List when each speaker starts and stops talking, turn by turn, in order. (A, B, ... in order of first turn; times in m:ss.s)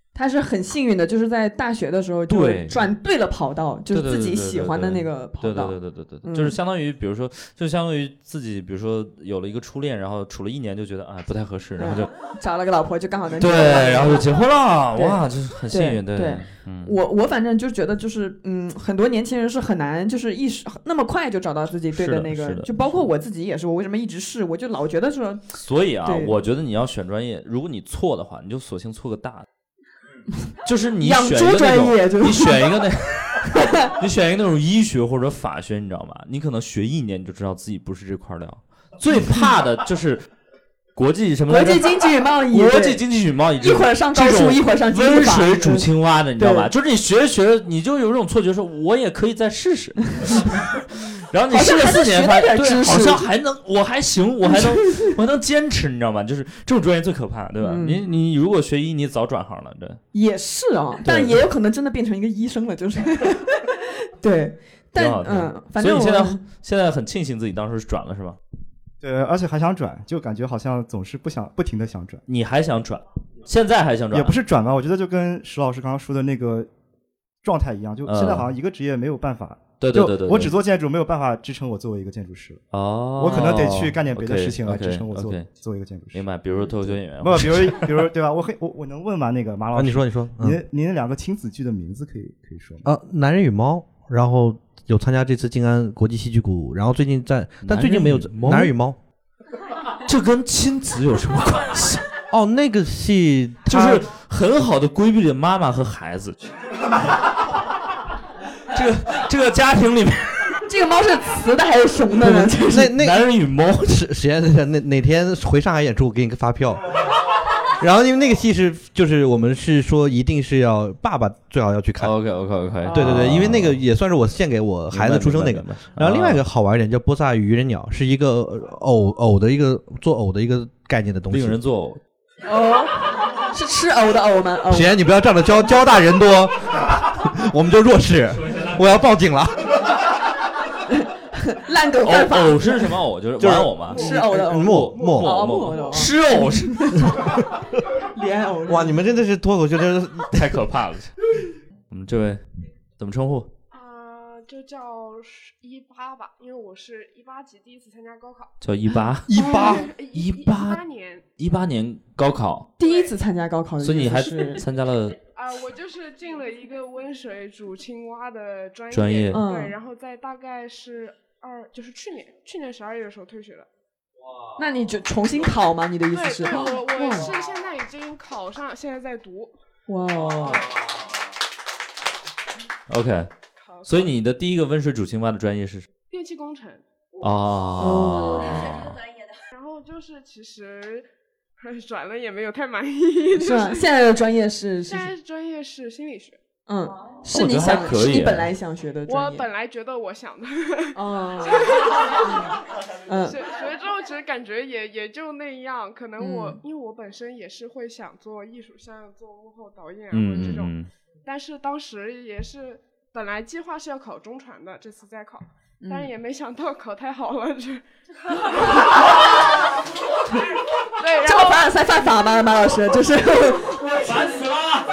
0:00.1-0:06.6 A
0:02.3-0:02.8 B
0:03.9-0:12.1 B
0:11.8-0:14.2 A
0:13.4-0:16.9 B
0:15.7-0:26.3 A
0:21.9-0:23.0 B
0:25.6-0:29.4 B
0:30.6-0:40.3 B
0:31.0-0:32.8 A
0:33.5-0:33.9 A
0:41.0-1:00.0 B
0:41.5-0:43.0 A
0:43.6-0:46.7 A
0:51.5-0:53.3 A
0:54.4-0:55.1 A
0:57.6-0:58.0 A
1:00.1-1:06.4 A
1:01.0-1:01.4 B
1:04.9-1:08.4 B
1:09.0-1:12.2 C
1:12.3-1:14.4 B
1:14.1-1:16.7 C
1:17.4-1:22.6 C
1:18.0-1:18.5 B
1:19.8-1:20.6 B
1:22.7-1:25.5 B
1:23.2-1:26.2 C
1:26.1-1:28.1 B
1:26.8-1:32.9 C
1:29.7-1:30.6 D
1:32.8-1:39.0 D
1:37.6-1:38.7 B
1:40.0-1:42.0 B
1:42.3-1:44.1 D
1:43.7-1:46.4 B
1:48.7-1:50.6 B
1:50.6-1:52.9 A
1:52.4-1:53.3 D
1:53.0-1:54.0 B
1:53.8-1:56.9 D
1:57.7-2:02.1 D
2:02.0-2:03.8 B
2:02.8-2:03.3 A
2:02.9-2:11.6 D
2:04.9-2:06.4 B
2:11.3-2:12.0 B
2:12.4-2:14.9 A
2:14.7-2:19.9 D
2:20.9-2:22.9 A
2:22.0-2:27.0 B
2:23.4-2:25.4 D
2:23.9-2:27.3 A
2:28.1-2:29.0 A
2:28.7-2:30.6 D
2:30.3-2:31.2 B
2:31.9-2:32.4 B
2:33.0-2:33.5 B
2:33.7-2:38.5 E
2:38.6-2:39.4 B
2:39.3-2:39.8 D
2:39.3-2:39.8 A
2:39.3-2:41.2 E
2:40.1-2:40.8 B
2:41.4-2:42.7 B
2:42.8-2:44.6 A
2:42.8-2:43.1 E
2:43.8-2:45.2 B
2:45.3-2:53.7 E
2:48.9-2:49.4 B
2:49.3-2:49.8 A
2:54.6-2:57.4 A
2:56.1-2:59.6 E
2:59.9-3:00.7 A
3:02.9-3:03.3 B
3:03.6-3:04.1 E
3:03.8-3:05.9 B
3:06.1-3:06.8 E
3:07.2-3:09.0 B
3:07.8-3:08.7 A
3:09.5-3:11.1 E
3:11.6-3:13.9 E
3:13.3-3:15.1 A
3:14.8-3:16.4 E
3:16.7-3:19.5 A
3:17.3-3:18.5 B
3:19.1-3:22.6 E
3:20.9-3:21.7 A
3:23.1-3:23.4 A
3:23.2-3:38.9 E
3:26.2-3:26.6 A
3:30.1-3:30.9 B
3:35.8-3:36.1 A
3:41.0-3:41.7 E
3:41.2-3:44.5 A